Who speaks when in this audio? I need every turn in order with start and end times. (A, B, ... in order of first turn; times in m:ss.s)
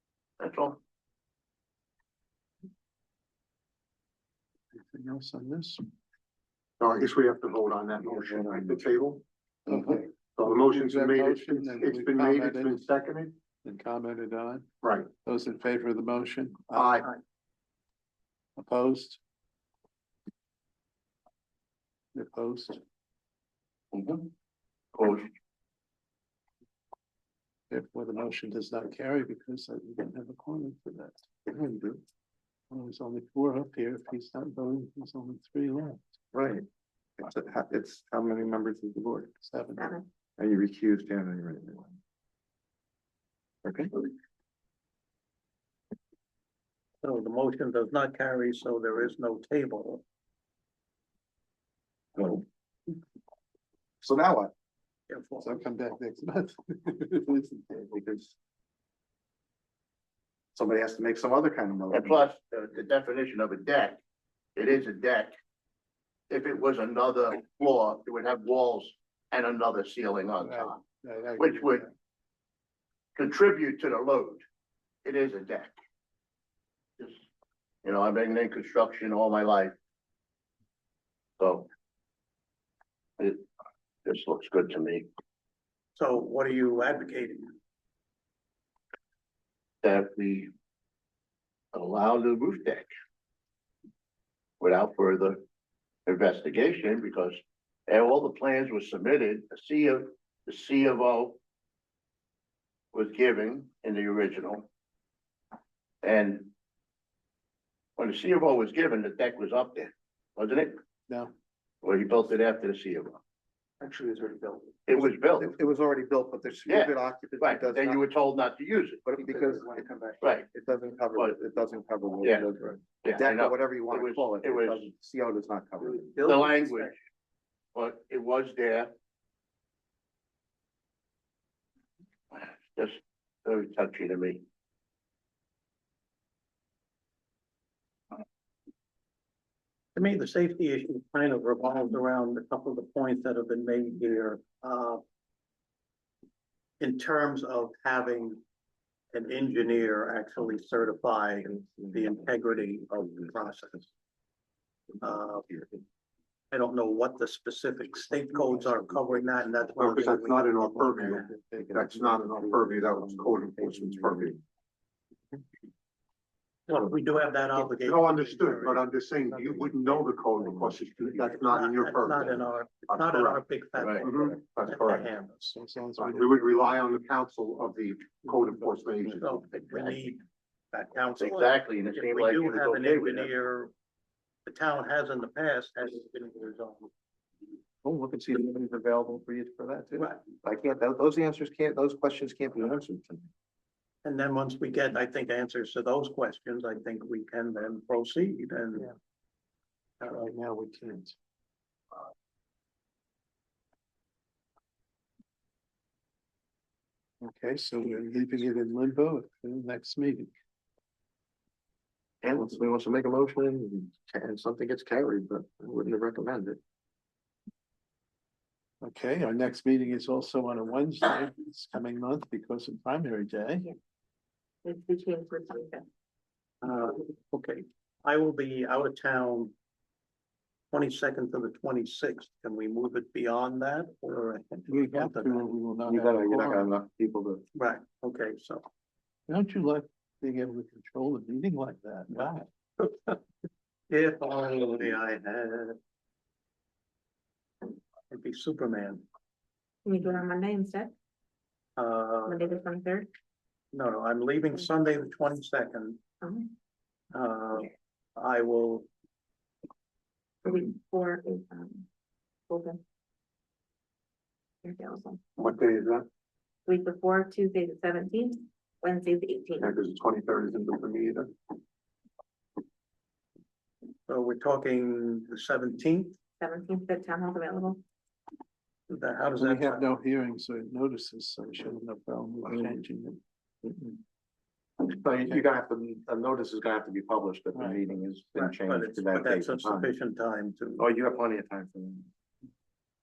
0:00.4-0:00.8 A
0:04.7-0:05.9 B
0:06.8-0:13.4 C
0:08.1-0:08.8 D
0:09.7-0:12.8 B
0:13.6-0:17.1 B
0:14.8-0:15.1 C
0:16.8-0:17.1 C
0:18.6-0:19.2 B
0:22.2-0:22.8 B
0:23.9-0:24.3 A
0:25.0-0:25.3 A
0:27.7-0:31.3 B
0:31.5-0:32.0 D
0:32.7-0:36.0 B
0:36.3-0:36.6 D
0:37.2-0:39.3 D
0:39.4-0:40.0 B
0:39.8-0:40.0 E
0:40.4-0:42.0 D
0:43.6-0:44.0 D
0:47.0-0:50.0 F
0:52.2-0:52.4 D
0:54.0-0:54.5 D
0:55.1-0:55.5 F
0:55.4-0:58.0 B
0:57.9-0:58.4 D
1:00.5-1:02.2 D
1:01.9-1:04.0 A
1:04.6-1:05.4 A
1:06.3-1:10.8 A
1:10.4-1:11.9 B
1:11.4-1:11.8 A
1:13.2-1:14.4 A
1:15.0-1:15.8 A
1:17.8-1:19.8 A
1:21.4-1:21.7 A
1:23.2-1:23.4 A
1:24.0-1:25.1 A
1:26.0-1:27.5 F
1:29.8-1:30.5 A
1:31.7-1:32.9 A
1:34.6-1:35.4 A
1:36.1-1:41.4 A
1:42.9-1:44.7 A
1:46.0-1:46.5 A
1:48.0-1:50.8 A
1:51.8-1:53.2 A
1:53.8-1:54.7 F
1:54.9-1:55.5 A
1:55.0-1:58.0 D
1:56.7-1:59.0 A
1:59.1-2:06.1 D
2:00.2-2:00.5 A
2:02.2-2:02.5 A
2:03.0-2:04.9 A
2:05.8-2:06.9 F
2:06.2-2:06.9 A
2:07.7-2:08.9 A
2:12.3-2:14.4 A
2:20.0-2:25.0 F
2:26.8-2:28.4 F
2:29.1-2:33.8 F
2:35.0-2:35.6 F
2:36.5-2:41.3 F
2:39.8-2:44.4 C
2:40.9-2:44.4 D
2:46.7-2:48.8 F
2:47.8-2:53.4 C
2:51.2-2:55.4 F
2:53.8-2:54.0 A
2:54.0-2:55.1 C
2:55.4-2:56.6 B
2:56.0-2:59.5 C
2:58.3-3:00.0 B
2:59.2-3:03.7 F
3:01.2-3:03.3 A
3:04.5-3:06.9 F
3:07.8-3:13.3 D
3:10.0-3:10.2 F
3:14.0-3:18.9 F
3:20.0-3:21.2 B
3:27.2-3:30.3 B
3:32.2-3:36.6 D
3:38.8-3:43.6 B
3:44.6-3:45.9 E
3:46.6-3:49.5 F
3:50.7-3:55.4 F
3:54.7-3:56.7 B
3:55.8-3:57.5 D
3:57.6-3:58.7 F
3:59.3-4:02.5 B
4:02.8-4:03.2 F
4:03.9-4:05.8 F
4:08.1-4:09.0 F
4:09.8-4:10.9 E
4:11.8-4:12.4 F
4:12.3-4:13.1 E
4:13.7-4:16.0 F
4:16.2-4:16.5 E
4:17.1-4:18.9 F
4:20.4-4:21.9 E
4:22.5-4:22.8 E
4:24.6-4:25.2 E
4:25.4-4:26.1 C
4:26.7-4:29.7 E
4:29.6-4:31.3 C
4:34.1-4:36.2 F
4:36.4-4:37.8 E
4:38.9-4:39.9 F
4:39.4-4:43.2 B
4:43.6-4:44.0 D
4:44.8-4:49.9 D
4:47.6-4:47.8 F
4:48.4-4:50.9 F
4:50.8-4:52.1 D